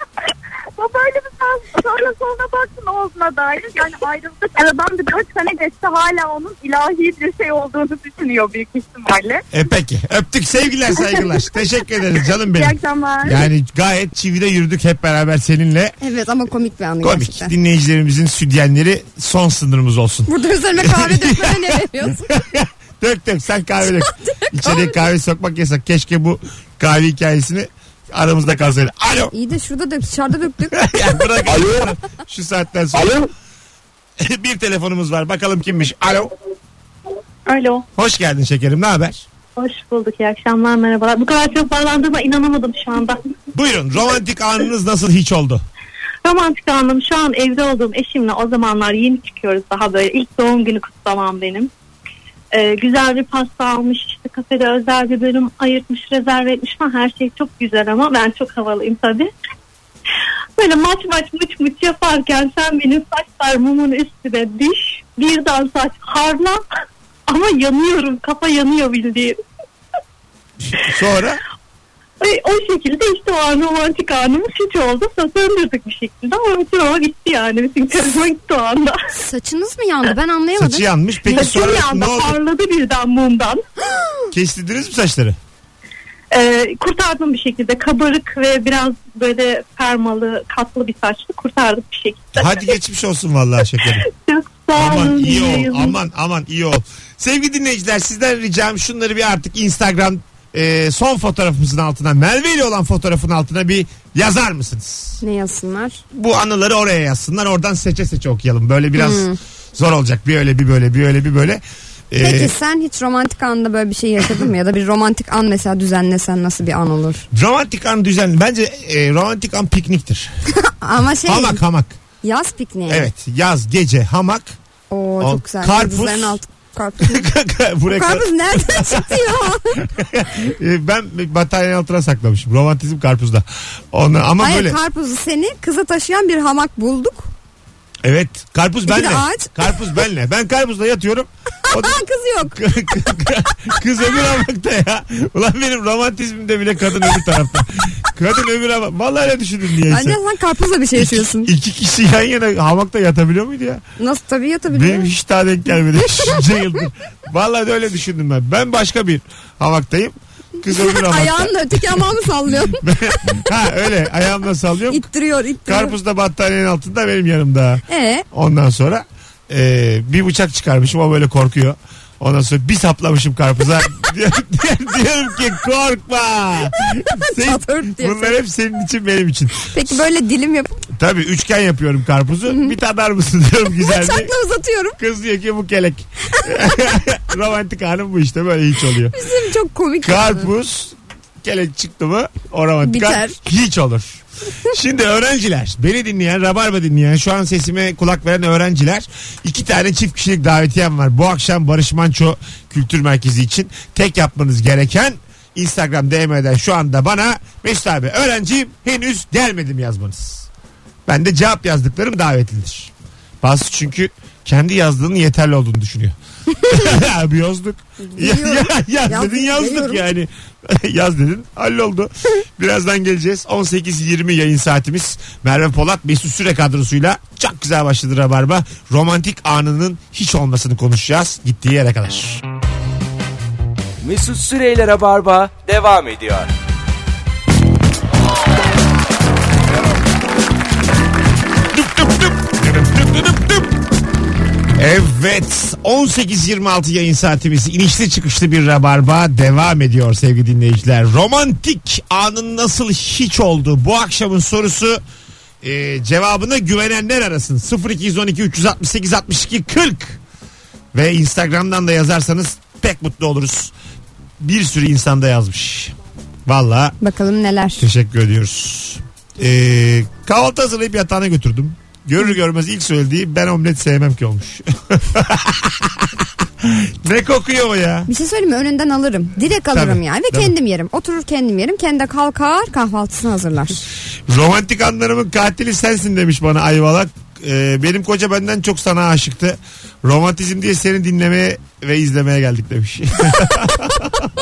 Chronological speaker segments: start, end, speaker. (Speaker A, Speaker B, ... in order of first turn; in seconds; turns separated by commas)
Speaker A: 0.8-9.4, Speaker B: 9.5-15.9, Speaker A: 12.5-13.4, Speaker C: 16.0-17.5, Speaker B: 17.0-29.3, Speaker C: 20.3-22.3, Speaker C: 24.1-25.0, Speaker C: 29.3-31.3, Speaker B: 30.7-33.2, Speaker B: 34.2-36.3, Speaker D: 37.5-37.9, Speaker B: 38.0-39.2, Speaker D: 39.6-43.2, Speaker B: 43.5-45.6, Speaker D: 46.2-51.7, Speaker D: 52.5-59.3, Speaker D: 60.6-66.6, Speaker D: 67.3-69.4, Speaker B: 70.7-71.4, Speaker D: 72.2-79.0, Speaker C: 79.1-80.8, Speaker B: 80.6-82.4, Speaker D: 81.2-83.6, Speaker B: 84.3-85.4, Speaker D: 86.3-92.7, Speaker B: 92.3-94.0, Speaker D: 94.1-96.0, Speaker B: 94.7-105.2, Speaker C: 105.2-106.0, Speaker B: 106.1-112.5, Speaker C: 109.0-109.4, Speaker C: 112.2-117.2, Speaker B: 117.3-120.3, Speaker C: 120.5-121.6, Speaker B: 121.2-122.0, Speaker C: 122.2-123.1, Speaker B: 122.9-124.5, Speaker C: 124.9-127.3, Speaker B: 125.2-126.4, Speaker B: 127.0-134.8, Speaker C: 127.9-129.8, Speaker C: 134.4-137.3, Speaker B: 138.0-150.2, Speaker C: 138.9-139.5, Speaker C: 141.7-142.6, Speaker C: 149.9-151.5, Speaker B: 150.9-153.8, Speaker C: 154.0-155.1, Speaker B: 154.7-162.0, Speaker C: 160.6-163.3, Speaker B: 162.7-165.0, Speaker C: 164.9-166.0, Speaker B: 165.7-179.7, Speaker C: 167.9-168.2, Speaker C: 177.1-178.4, Speaker C: 179.7-180.8, Speaker B: 180.9-184.3, Speaker C: 183.8-185.0, Speaker B: 185.0-189.1, Speaker C: 189.1-190.5, Speaker B: 190.0-210.5, Speaker C: 192.8-193.4, Speaker B: 211.1-232.4, Speaker C: 218.0-220.0, Speaker E: 234.0-236.5, Speaker B: 241.7-243.7, Speaker B: 244.8-255.0, Speaker B: 255.6-260.2, Speaker B: 260.9-263.7, Speaker B: 264.4-265.9, Speaker B: 266.4-266.9, Speaker C: 267.0-267.8, Speaker B: 267.8-278.1, Speaker C: 278.1-283.8, Speaker B: 279.7-280.5, Speaker B: 284.3-294.2, Speaker C: 293.4-294.1